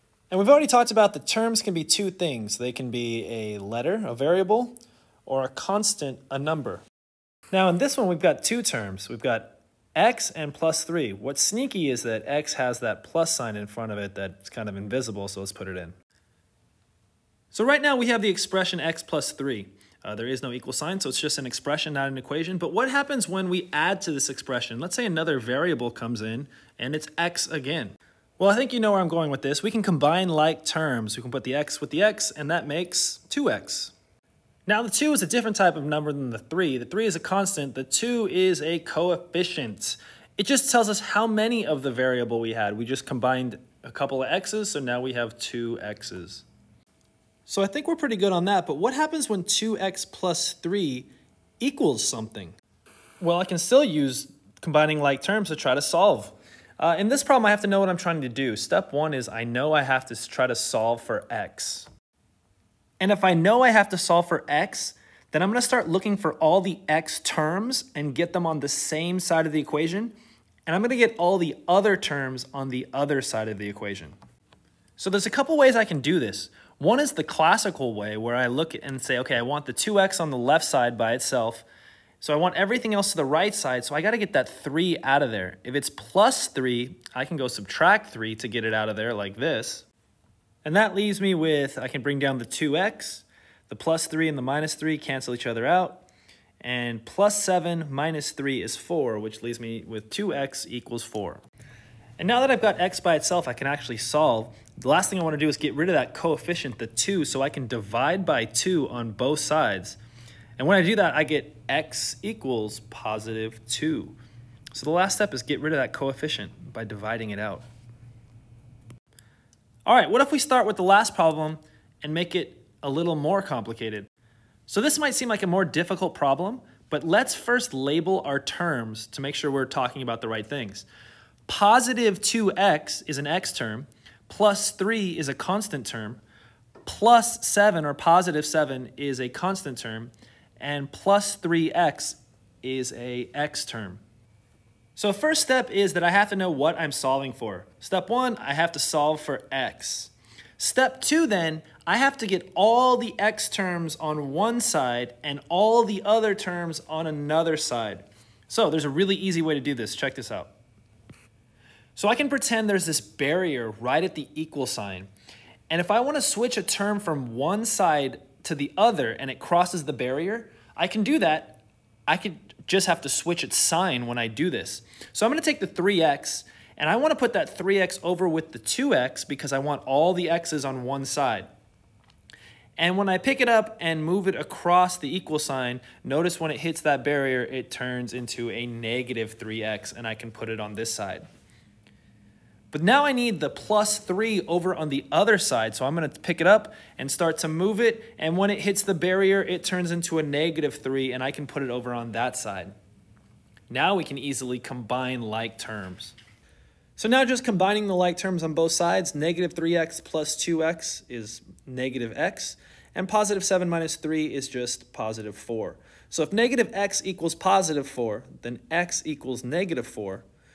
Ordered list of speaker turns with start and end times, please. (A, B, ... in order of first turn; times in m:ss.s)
0:00.3-0:06.8 A
0:07.5-0:16.0 A
0:17.5-0:33.9 A
0:34.7-0:46.4 A
0:47.5-0:51.1 A
0:51.6-0:52.6 A
0:53.2-1:01.9 A
1:03.0-1:10.1 A
1:10.6-1:14.1 A
1:15.0-1:21.6 A
1:22.2-1:29.9 A
1:30.6-1:36.0 A
1:36.6-1:41.4 A
1:42.2-1:50.0 A
1:50.6-1:54.1 A
1:54.7-1:57.6 A
1:59.8-2:04.1 A
2:04.7-2:10.8 A
2:11.5-2:16.2 A
2:16.8-2:24.0 A
2:25.0-2:40.5 A
2:42.0-2:45.1 A
2:45.7-3:01.5 A
3:02.8-3:11.2 A
3:12.7-3:22.7 A
3:23.7-3:26.1 A
3:27.0-3:40.2 A